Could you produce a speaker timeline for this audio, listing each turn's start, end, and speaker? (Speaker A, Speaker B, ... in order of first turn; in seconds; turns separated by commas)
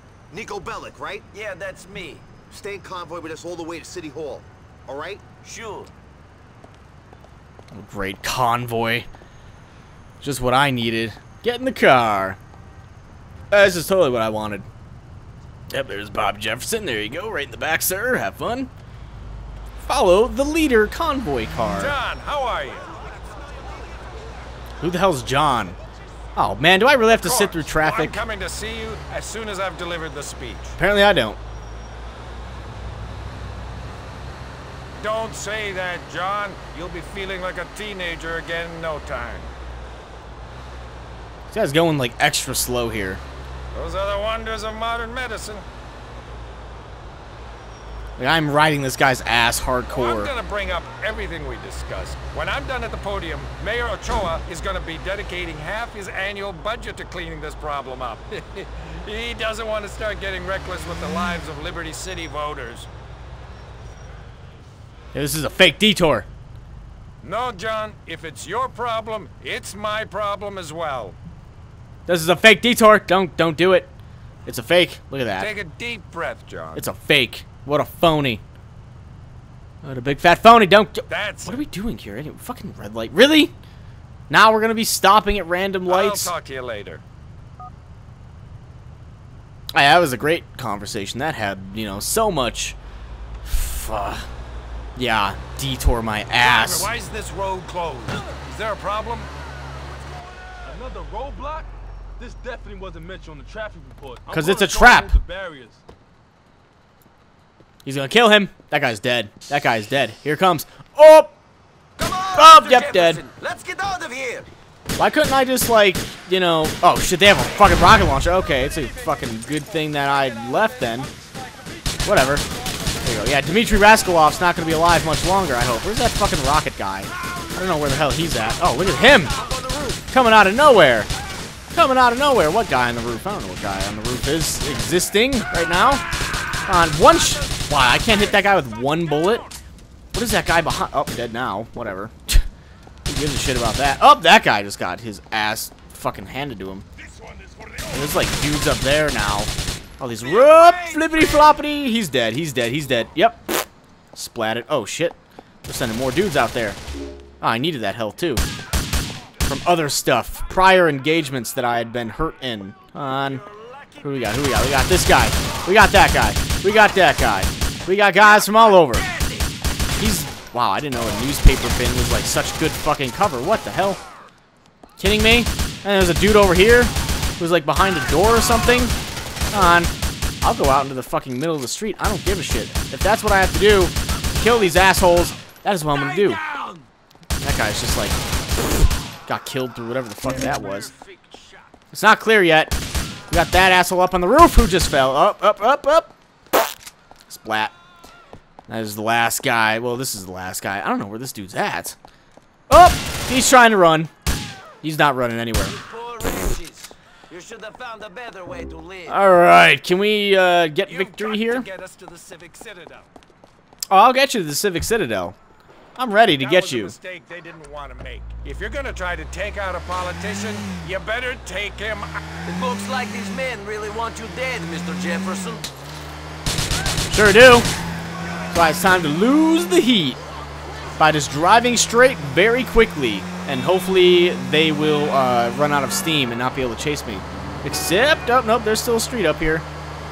Speaker A: 0.3-1.3, Speaker B: 1.3-2.4, Speaker A: 2.4-5.2, Speaker B: 5.4-5.9, Speaker C: 7.7-9.1, Speaker C: 10.2-12.4, Speaker C: 13.5-14.7, Speaker C: 15.7-18.7, Speaker C: 19.8-22.0, Speaker D: 21.8-22.9, Speaker C: 24.8-25.8, Speaker C: 26.4-28.2, Speaker D: 27.1-30.8, Speaker C: 30.8-31.4, Speaker D: 35.0-39.5, Speaker C: 41.5-43.2, Speaker D: 43.7-45.6, Speaker C: 48.2-50.3, Speaker D: 49.9-62.9, Speaker C: 65.1-66.3, Speaker D: 67.2-71.2, Speaker C: 72.1-73.9, Speaker C: 74.5-75.5, Speaker D: 75.4-76.9, Speaker C: 76.8-78.4, Speaker C: 79.8-83.5, Speaker D: 81.1-81.6, Speaker C: 84.3-86.3, Speaker D: 85.9-87.0, Speaker C: 89.7-92.8, Speaker C: 93.4-94.3, Speaker C: 95.0-96.9, Speaker D: 96.3-99.3, Speaker E: 100.7-105.8, Speaker C: 104.3-105.2, Speaker C: 107.8-111.3, Speaker B: 112.0-114.5, Speaker C: 112.3-113.2, Speaker C: 115.0-121.1, Speaker C: 122.0-122.5, Speaker C: 123.0-129.4, Speaker B: 129.4-130.1, Speaker C: 130.1-131.1, Speaker C: 131.7-136.1, Speaker C: 136.7-139.5, Speaker C: 140.1-142.4, Speaker C: 143.1-146.9, Speaker C: 147.9-153.4, Speaker C: 154.2-156.8, Speaker C: 157.4-158.4, Speaker C: 159.4-163.4, Speaker D: 163.5-163.8, Speaker C: 164.0-169.1, Speaker B: 169.2-169.4, Speaker C: 170.0-174.0, Speaker C: 175.0-178.9, Speaker C: 179.5-186.4, Speaker C: 187.4-188.2, Speaker C: 189.3-190.9, Speaker C: 191.9-192.8, Speaker C: 193.3-196.1, Speaker C: 197.3-197.8, Speaker C: 198.7-202.0, Speaker C: 202.7-204.1, Speaker C: 204.8-205.8, Speaker B: 205.7-209.2, Speaker C: 209.1-211.7, Speaker D: 210.9-213.1, Speaker C: 213.9-215.4, Speaker C: 216.0-217.0, Speaker D: 216.4-222.2, Speaker B: 222.4-225.7, Speaker C: 227.1-227.7, Speaker C: 228.5-230.2, Speaker C: 231.0-239.7